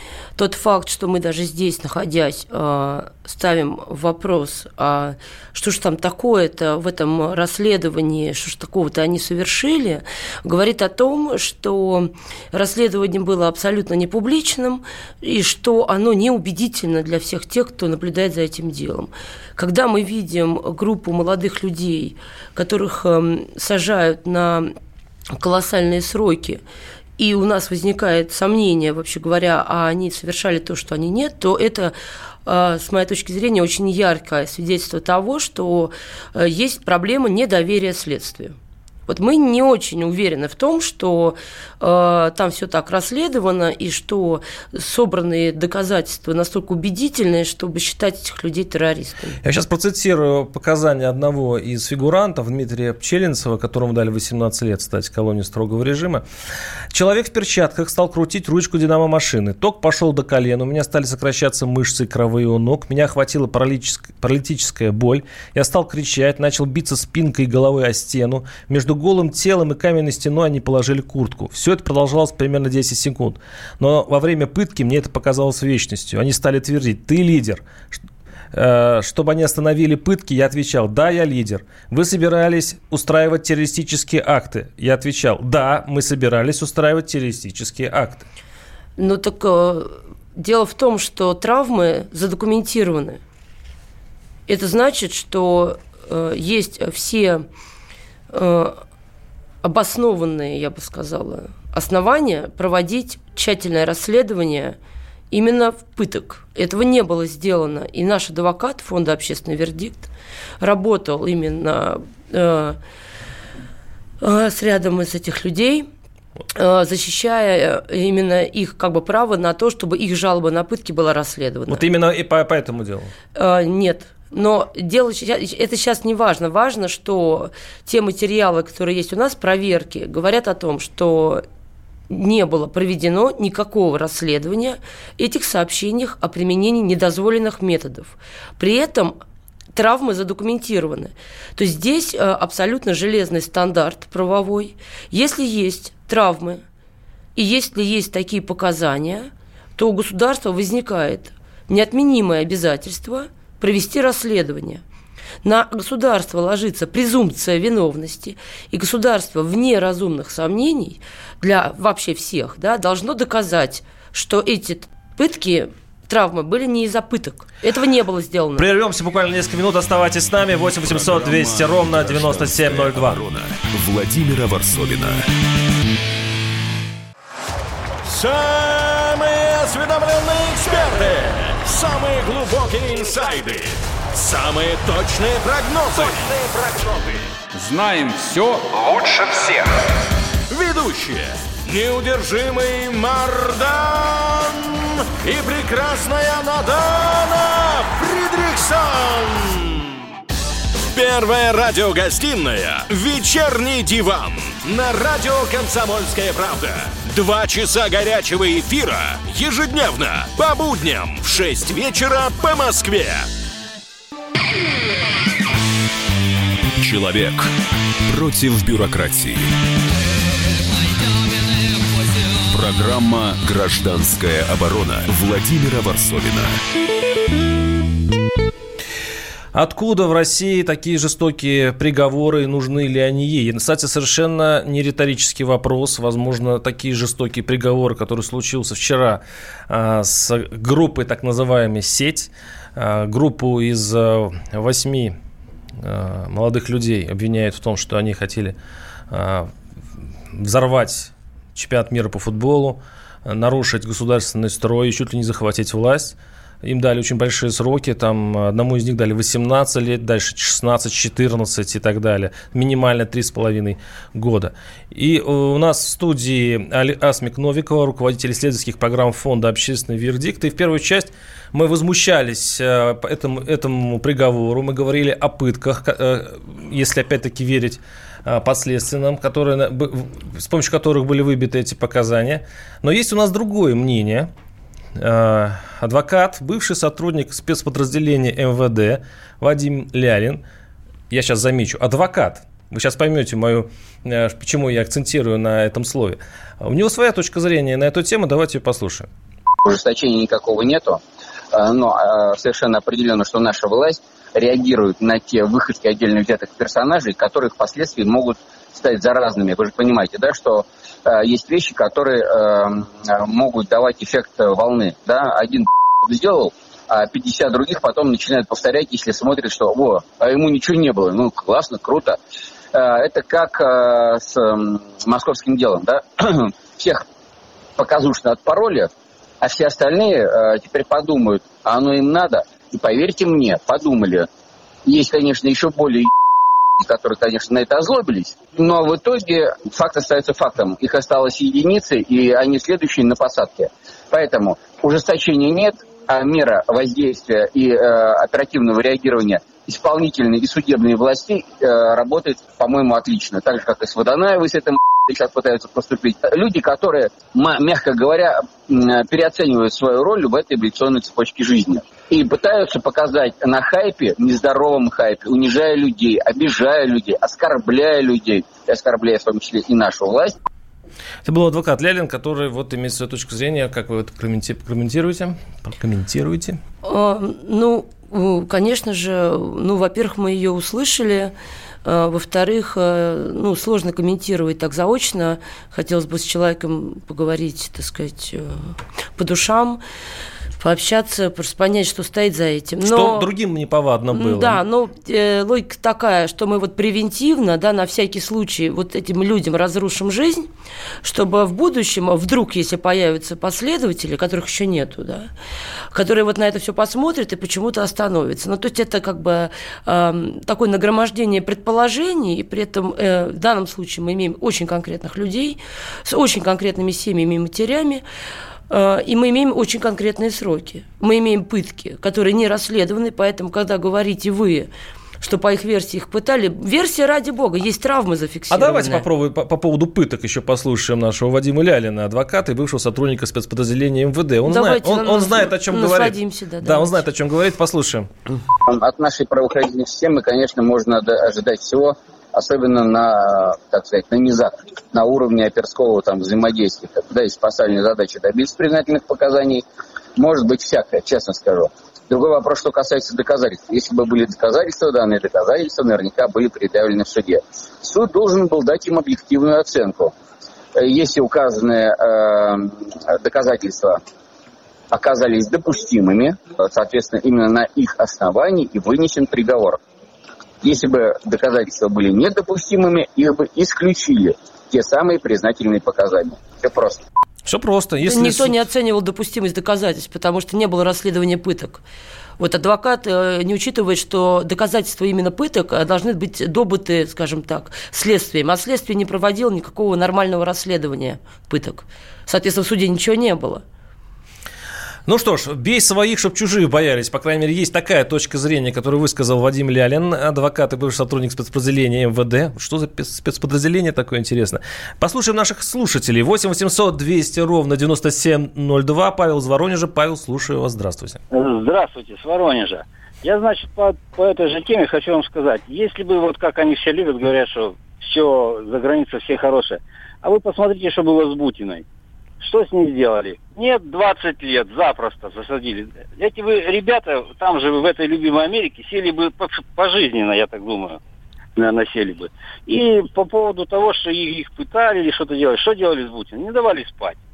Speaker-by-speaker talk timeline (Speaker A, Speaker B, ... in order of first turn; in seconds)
Speaker A: 0.4-24.7, 25.4-26.6, 27.2-31.9, 32.5-38.5, 39.1-49.4, 89.0-93.2, 94.5-97.4, 98.3-98.8, 99.6-104.8, 105.3-110.1, 110.6-112.8, 114.2-115.9, 116.5-121.8, 123.3-131.4, 132.1-139.2, 139.7-146.6, 147.3-154.8, 155.4-168.7, 376.8-381.3, 381.8-389.8, 390.6-393.3, 394.1-400.5, 401.0-405.3, 405.9-418.0, 418.7-424.7, 425.2-429.1, 434.4-437.0, 478.0-481.8, 482.4-493.6
Speaker B: 49.4-56.2, 56.9-77.6, 78.5-88.2, 121.7-123.1, 168.6-173.2, 229.5-245.1, 245.8-248.6, 249.1-249.5, 250.3-284.3, 284.9-290.4, 291.1-299.1, 371.2-376.6, 392.8-394.6, 428.5-438.1, 477.4-478.5, 495.1-511.2
Speaker C: 170.7-175.3, 216.8-217.5, 218.1-219.5, 222.5-226.6
Speaker D: 178.0-187.1, 190.5-199.9, 200.9-213.3
Speaker E: 299.6-301.0, 301.5-322.2, 322.7-327.0, 327.8-328.9, 329.4-334.3, 334.9-336.1, 336.8-370.4, 438.6-449.6, 450.1-460.1, 460.8-464.0, 464.9-469.8, 470.6-477.0
Speaker F: 511.3-521.8, 522.4-531.0, 531.5-537.2